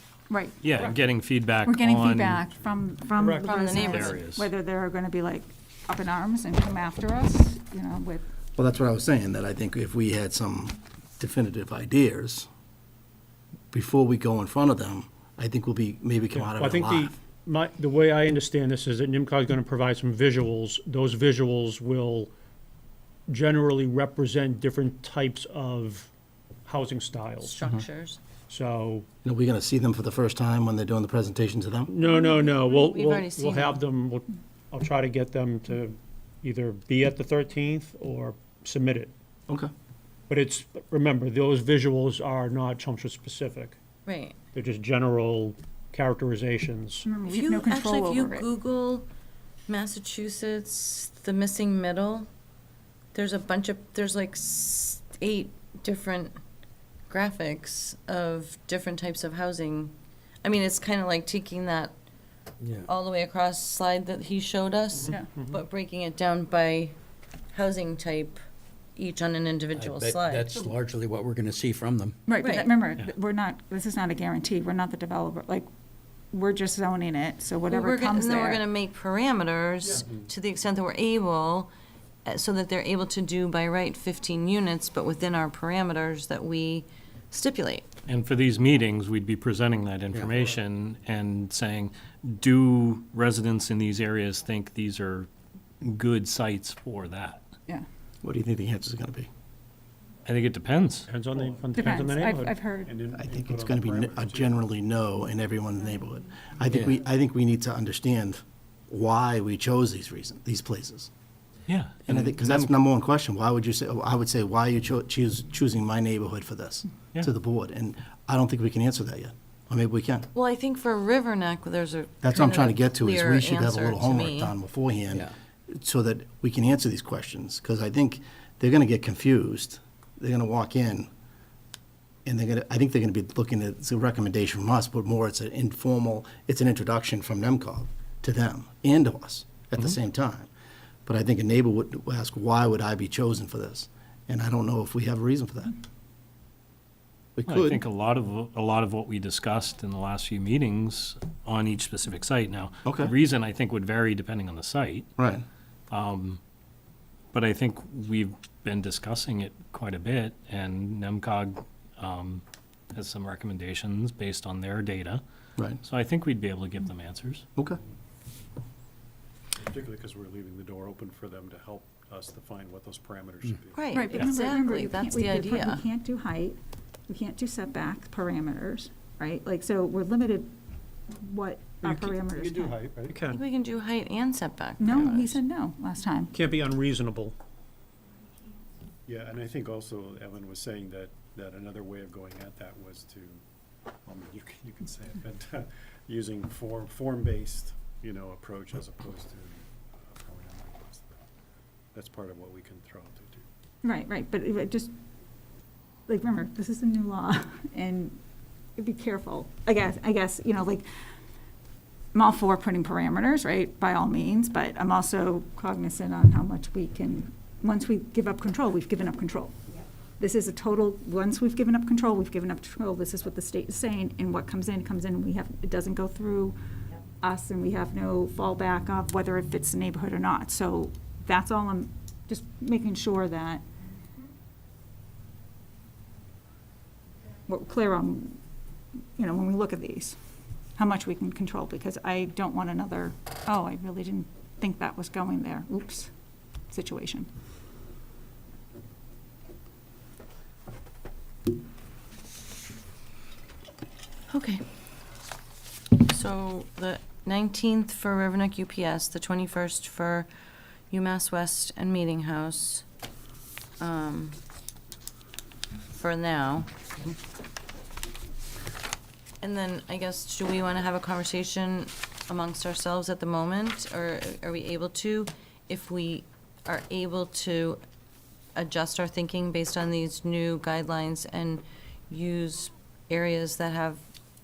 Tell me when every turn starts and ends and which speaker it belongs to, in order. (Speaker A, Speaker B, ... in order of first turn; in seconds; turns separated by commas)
Speaker A: 0.3-0.6, Speaker B: 0.6-2.5, Speaker A: 1.6-8.2, Speaker C: 3.2-4.1, Speaker D: 3.5-4.1, Speaker B: 3.8-4.5, Speaker E: 8.6-12.5, Speaker E: 13.7-17.1, Speaker C: 16.3-22.3, Speaker C: 23.3-26.1, Speaker C: 26.7-27.6, Speaker D: 27.4-28.2, Speaker C: 28.5-29.1, Speaker E: 29.2-31.9, Speaker C: 31.9-39.1, Speaker D: 32.0-33.8, Speaker C: 40.3-43.8, Speaker D: 44.1-44.4, Speaker C: 44.5-47.1, Speaker A: 47.0-48.5, Speaker D: 47.2-49.1, Speaker D: 49.7-52.3, Speaker D: 53.1-56.4, Speaker D: 57.1-62.0, Speaker F: 62.6-62.9, Speaker D: 62.8-67.0, Speaker C: 65.1-65.5, Speaker D: 67.5-68.4, Speaker D: 69.0-70.7, Speaker F: 69.8-72.2, Speaker A: 72.3-75.7, Speaker D: 72.4-72.9, Speaker A: 76.3-78.7, Speaker D: 77.7-81.7, Speaker D: 82.2-87.9, Speaker B: 88.1-95.3, Speaker B: 95.8-97.4, Speaker E: 98.2-99.3, Speaker B: 100.3-101.1, Speaker C: 101.1-102.6, Speaker G: 101.3-102.3, Speaker A: 101.8-102.9, Speaker G: 102.8-104.6, Speaker E: 103.1-111.1, Speaker B: 111.7-112.6, Speaker E: 112.1-120.3, Speaker D: 120.3-124.5, Speaker E: 122.2-131.1, Speaker E: 132.3-140.5, Speaker E: 141.1-145.8, Speaker E: 147.4-147.8, Speaker B: 147.5-155.1, Speaker E: 152.8-153.1, Speaker E: 155.2-155.4, Speaker B: 155.9-156.4, Speaker B: 157.3-162.4, Speaker B: 162.9-165.2, Speaker B: 165.8-167.5, Speaker G: 169.6-174.0, Speaker D: 173.7-175.8, Speaker A: 173.9-176.6, Speaker B: 174.0-174.4, Speaker A: 177.1-180.5, Speaker A: 181.1-182.8, Speaker C: 181.8-183.3, Speaker G: 182.7-183.3, Speaker D: 183.3-185.4, Speaker A: 184.8-186.3, Speaker C: 186.3-187.4, Speaker G: 189.1-193.4, Speaker G: 194.1-201.2, Speaker G: 201.9-203.5, Speaker A: 203.8-204.9, Speaker A: 206.1-208.2, Speaker A: 208.8-210.9, Speaker A: 212.1-219.6, Speaker A: 220.2-226.6, Speaker A: 227.2-233.6, Speaker A: 237.5-238.4, Speaker A: 239.2-240.2, Speaker A: 240.8-246.1, Speaker A: 246.7-247.3, Speaker D: 254.3-254.6, Speaker D: 256.1-260.3, Speaker D: 260.9-262.9, Speaker D: 263.8-264.4, Speaker D: 265.9-266.7, Speaker D: 269.4-277.8, Speaker D: 278.6-284.0